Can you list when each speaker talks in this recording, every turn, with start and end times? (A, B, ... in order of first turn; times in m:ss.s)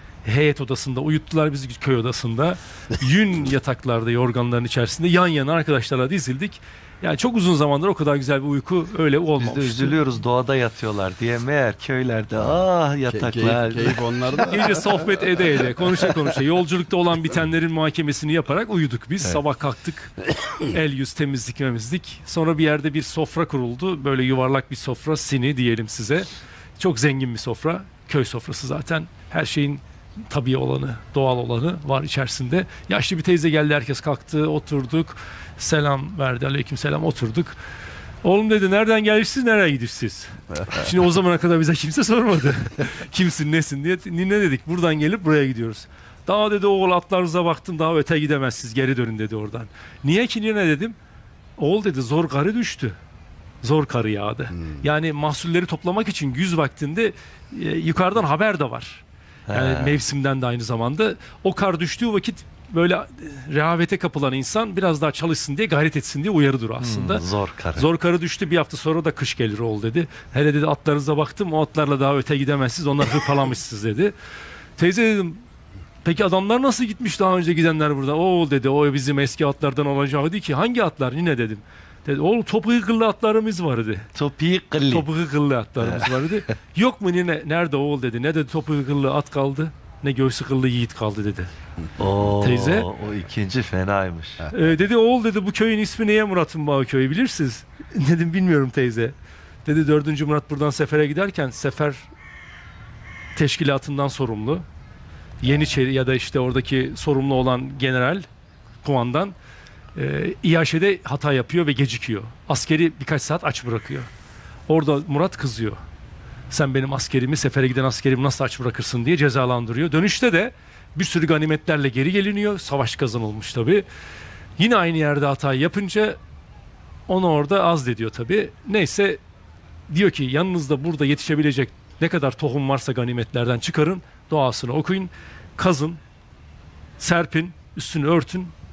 0:00.2-0:10.0 A
0:09.4-0:14.0 B
0:12.4-0:15.0 C
0:14.3-0:26.3 A
0:26.8-0:37.6 A
0:38.2-0:51.0 A
0:51.6-0:53.0 A
0:53.6-1:14.1 A
0:59.5-1:00.0 B
1:06.8-1:07.9 B
1:14.8-1:15.4 A
1:16.0-1:24.1 A
1:24.2-1:25.1 B
1:24.9-1:31.5 A
1:25.8-1:26.3 B
1:32.0-1:34.5 B
1:32.4-1:32.9 A
1:34.5-1:42.1 A
1:43.4-1:44.6 A
1:45.4-1:48.3 A
1:48.8-1:49.4 A
1:50.0-1:54.1 A
1:54.7-1:55.8 A
1:56.5-2:03.9 A
2:04.6-2:06.2 A
2:07.1-2:09.2 A
2:09.9-2:16.0 A
2:17.0-2:18.5 A